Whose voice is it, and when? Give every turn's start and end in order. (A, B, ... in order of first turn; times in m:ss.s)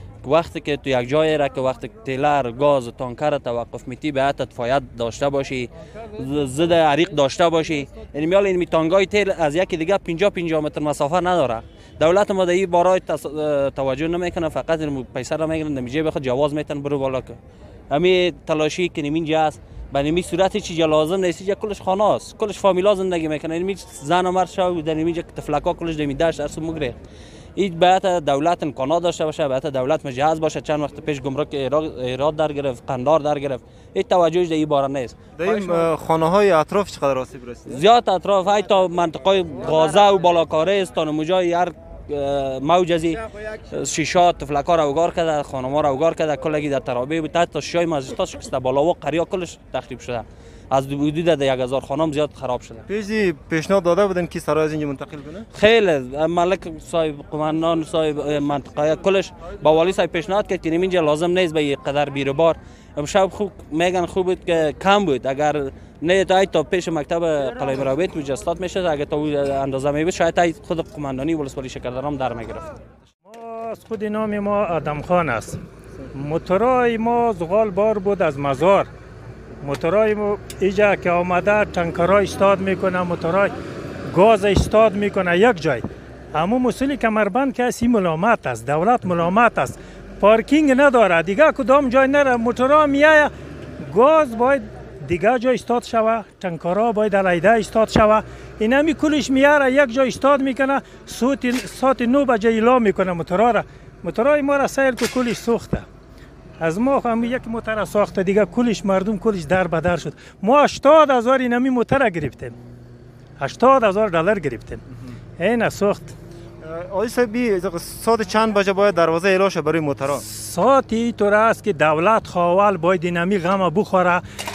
0:00.2-0:17.4 A
0:17.9-0:27.0 A
0:27.6-0:35.9 A
0:35.4-0:37.8 B
0:37.7-0:52.8 A
0:52.9-0:55.5 B
0:55.5-1:12.7 A
1:13.2-1:15.6 C
1:16.1-1:18.9 C
1:19.6-1:23.5 C
1:24.1-1:45.8 C
1:46.6-1:52.6 C
1:53.4-1:54.8 C
1:55.4-1:56.1 C
1:56.6-2:00.2 B
2:00.2-2:04.2 C